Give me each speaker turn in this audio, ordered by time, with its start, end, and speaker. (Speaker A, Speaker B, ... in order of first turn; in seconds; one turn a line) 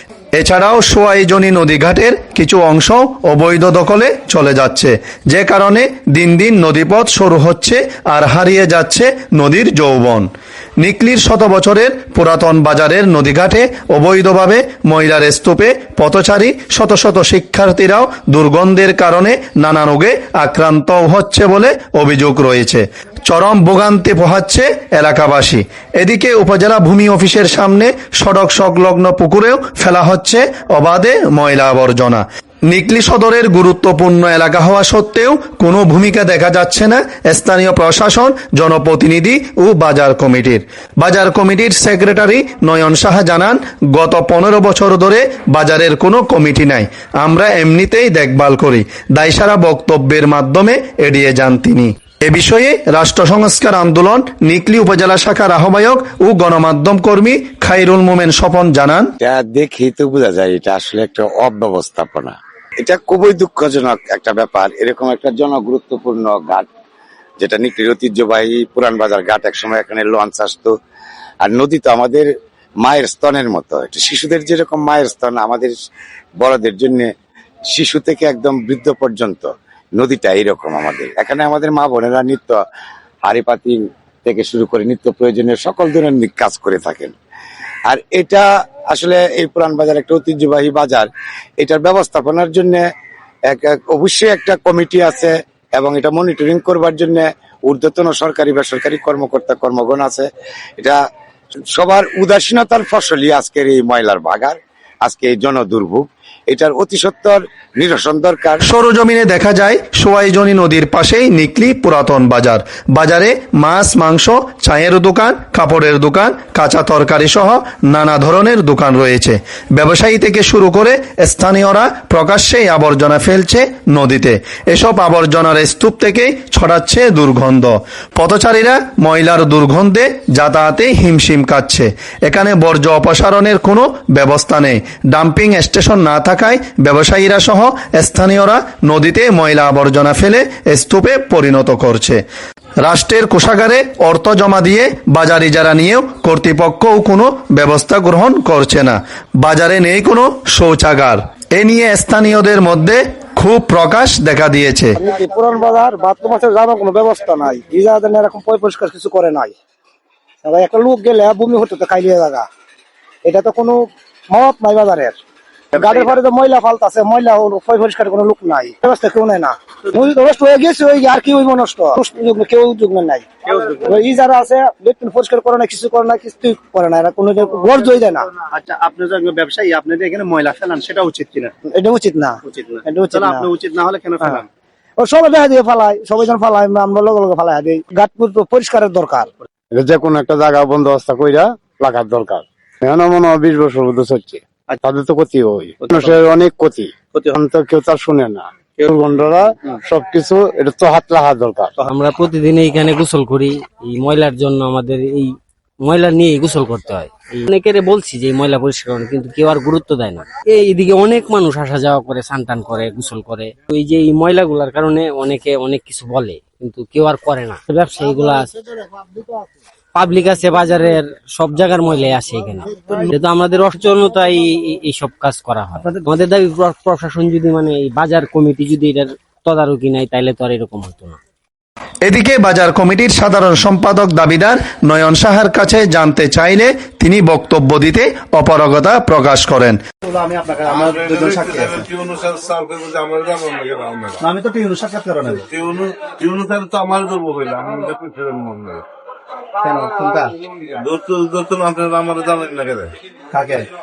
Speaker A: 0.3-10.3
Speaker A: 10.8-59.1
Speaker B: 59.2-66.7
Speaker B: 67.4-70.7
Speaker B: 71.4-72.3
Speaker B: 72.8-75.7
Speaker B: 76.4-77.1
Speaker B: 77.7-82.6
Speaker B: 83.2-87.1
Speaker B: 87.9-91.1
Speaker B: 91.6-92.8
Speaker B: 93.5-100.2
Speaker B: 101.8-108.6
Speaker A: 108.7-142.2
Speaker A: 142.8-155.0
Speaker C: 155.0-159.5
Speaker C: 160.4-162.5
Speaker C: 163.2-165.2
Speaker C: 165.7-178.3
Speaker D: 173.5-173.9
Speaker D: 178.4-181.5
Speaker C: 181.7-183.5
Speaker D: 182.5-184.5
Speaker C: 185.0-189.3
Speaker B: 189.8-190.3
Speaker B: 191.4-193.1
Speaker B: 194.3-197.6
Speaker E: 201.8-218.5
Speaker E: 219.9-231.2
Speaker A: 232.0-239.8
Speaker D: 240.0-241.9
Speaker F: 240.7-244.2
Speaker D: 244.2-245.5
Speaker F: 245.4-248.8
Speaker D: 249.6-250.3
Speaker F: 250.5-252.9
Speaker D: 253.3-253.7